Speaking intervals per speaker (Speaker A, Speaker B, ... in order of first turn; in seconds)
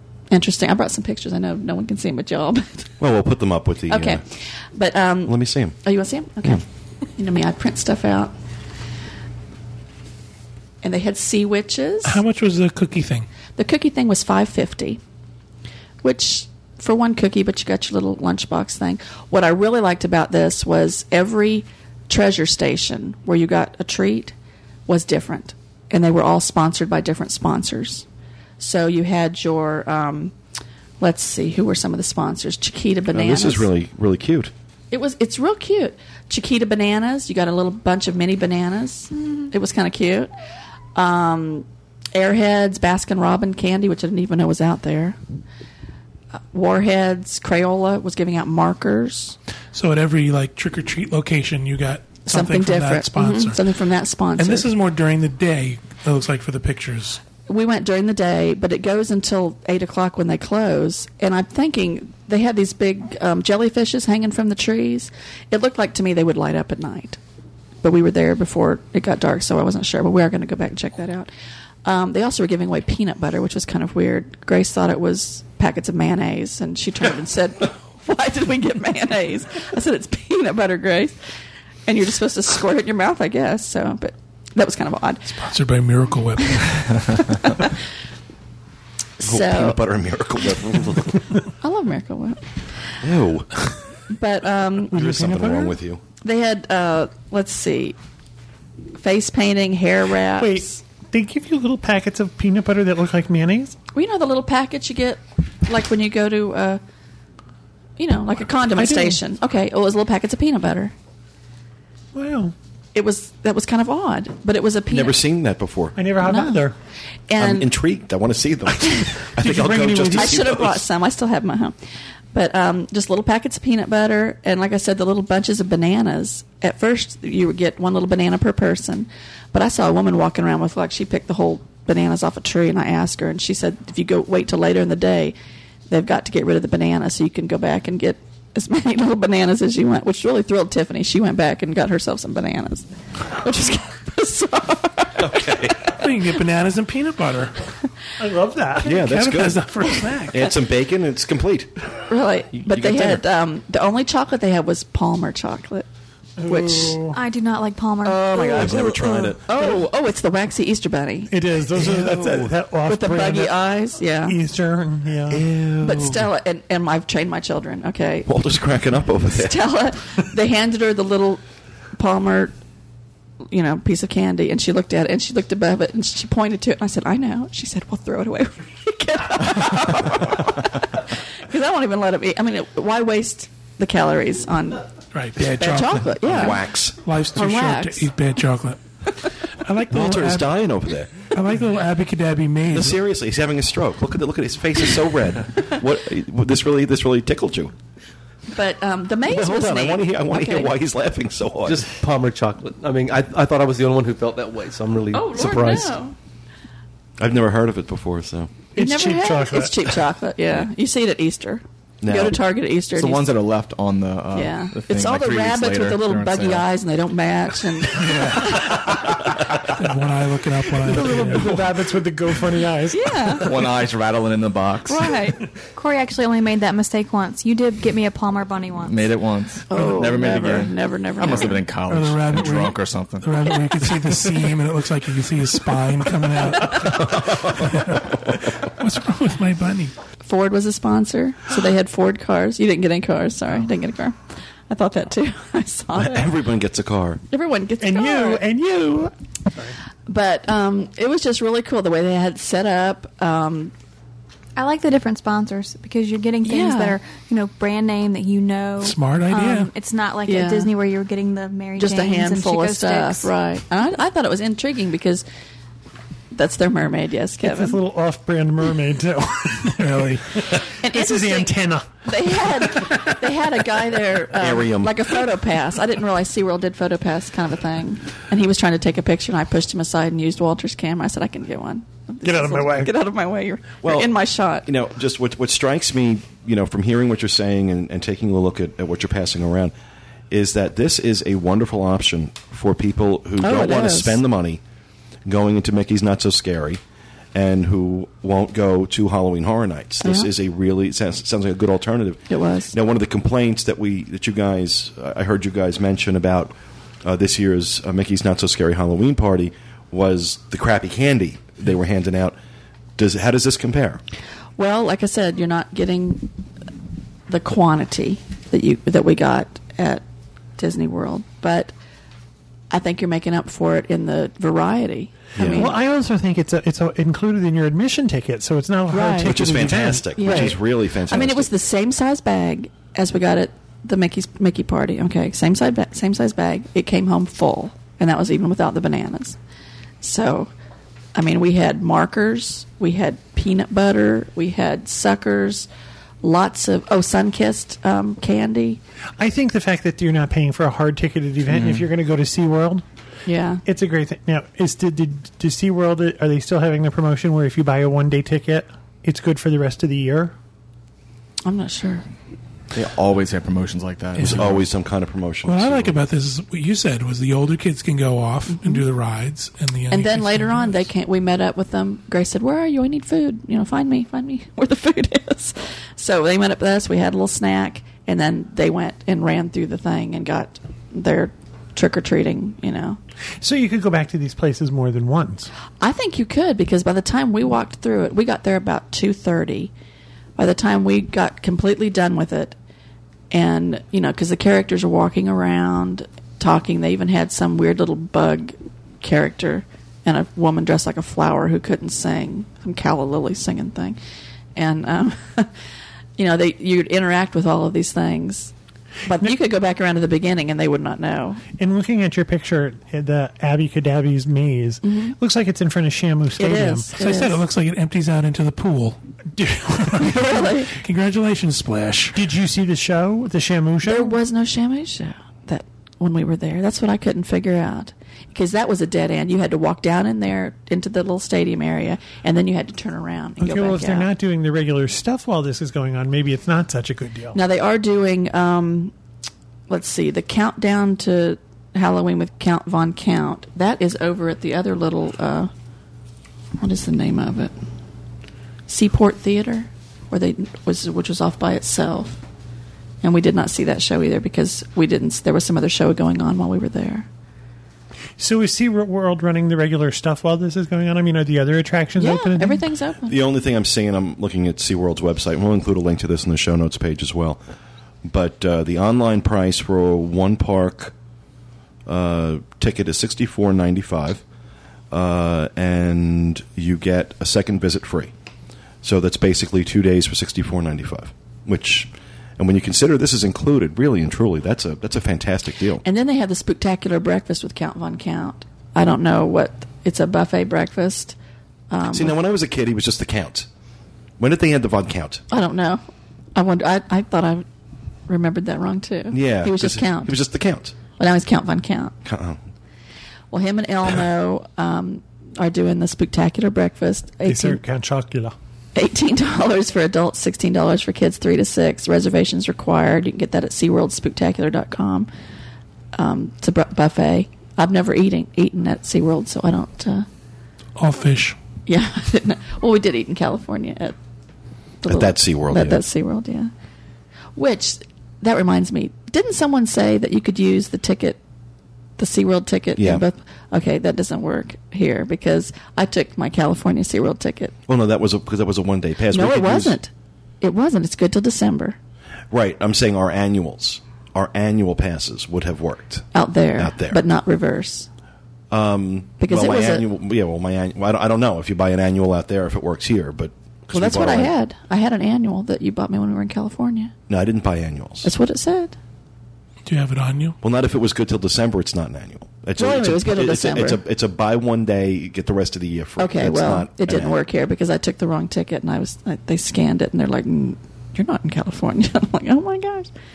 Speaker A: 0.3-2.9, 3.9-6.6, 7.2-8.3, 10.8-12.2, 13.6-15.0, 16.0-24.3, 24.9-28.0, 28.6-30.3, 31.0-33.7, 34.9-40.3, 40.9-45.2, 46.5-49.4, 52.2-54.7, 57.5-67.2, 67.8-71.3, 71.8-81.2, 81.8-85.5, 87.2-87.8, 89.2-89.8, 91.6-92.4, 94.1-95.0, 96.2-98.0, 99.0-100.7, 103.9-106.8, 108.0-110.9, 112.9-115.2, 116.2-116.7, 117.3-117.7, 118.8-119.1, 120.1-121.8, 122.3-135.4, 135.9-145.6, 152.1-155.9, 156.4-157.0, 158.2-161.3, 162.8-164.4, 165.8-168.3, 169.3-171.4, 171.9-172.6, 173.5-184.9, 185.4-186.6, 187.3-188.1, 198.5-200.8, 205.1-206.1, 208.8-213.3, 214.3-218.6, 222.9-223.6, 224.9-225.4, 229.7-231.7, 240.2-246.3, 247.3-248.4, 250.1-253.7, 256.4-257.0, 260.2-260.7, 261.8-265.2, 266.3-267.8, 270.8-284.7, 293.4-294.2, 300.0-300.3, 302.3-302.7, 314.6-316.3, 317.3-320.0, 320.6-321.7, 322.7-325.8, 328.9-329.4, 330.1-339.4, 340.0-340.5, 341.1-345.7, 346.2-348.8, 353.2-353.6, 361.4-362.0, 368.5-368.8, 369.9-383.0, 385.8-389.7, 390.4-392.6, 393.3-404.0, 404.6-405.5, 406.2-408.5, 409.1-411.4, 414.8-415.1, 416.4-417.4, 420.0-420.8, 423.8-434.1, 437.3-438.9, 439.7-445.5, 446.6-447.5, 448.7-452.2, 453.0-457.1, 462.0-463.2, 485.8-491.1, 491.7-492.2, 495.3-495.8, 496.3-497.4, 498.1-500.1, 501.0-501.9, 503.3-507.6, 508.7-515.1, 515.9-520.1, 521.7-523.9, 524.8-526.5, 527.3-531.2, 532.0-537.5, 539.1-539.9, 540.4-541.8, 546.1-547.9, 549.2-549.8, 553.7-556.9, 558.0-558.8, 562.6-563.8, 566.0-572.9
Speaker B: 3.0-4.2, 5.2-5.8, 33.1-34.5, 89.2-91.2, 93.0-93.7, 94.9-96.0, 114.9-116.0, 117.4-120.8, 145.2-145.9, 148.8-149.7, 150.3-151.7, 152.5-153.2, 158.0-159.8, 161.8-162.5, 165.3-166.2, 168.2-169.6, 186.2-186.9, 189.9-191.1, 192.7-197.7, 199.3-201.8, 207.2-208.5, 212.0-212.3, 236.9-238.0, 245.9-247.2, 274.4-275.1, 283.8-284.1, 284.6-289.7, 290.3-294.6, 295.2-296.8, 297.3-312.4, 313.0-314.0, 325.3-325.7, 329.2-331.5, 364.2-365.9, 463.1-467.4, 468.0-470.9, 471.9-474.2, 474.9-478.1, 478.8-485.8, 491.9-493.5, 494.2-495.2, 499.1-500.8, 502.0-502.4, 524.9-525.8, 532.8-533.0, 537.7-539.8, 542.3-546.0, 546.6-547.0, 548.5-554.3, 557.1-558.1, 560.4-567.1
Speaker C: 12.0-13.3, 49.7-53.6, 54.4-57.2, 85.4-87.0, 145.9-147.6, 148.9-150.5, 185.1-190.5, 191.3-193.0, 219.8-221.6, 231.9-239.9, 258.8-259.7, 269.8-270.5, 364.2-364.4, 365.4-370.8, 417.0-422.2, 520.8-521.4, 559.6-560.4
Speaker D: 94.9-95.7, 100.4-103.8, 108.8-109.2, 112.1-112.5, 116.0-116.8, 119.4-120.4, 148.2-149.0, 156.4-157.2, 161.3-163.6, 164.2-165.4, 208.7-210.0, 220.8-223.7, 247.8-249.8, 267.4-273.2, 282.2-282.9, 325.5-330.6, 349.2-352.8, 353.6-360.3, 383.4-385.5, 411.5-417.4, 422.1-424.2, 433.4-437.4, 458.2-462.6, 507.2-508.3
Speaker E: 157.1-158.8, 225.7-229.1, 254.6-263.3
Speaker F: 201.7-206.0
Speaker G: 212.9-216.7, 217.8-219.0, 220.9-221.6, 223.4-225.2, 228.8-234.1, 351.5-351.8, 362.7-364.6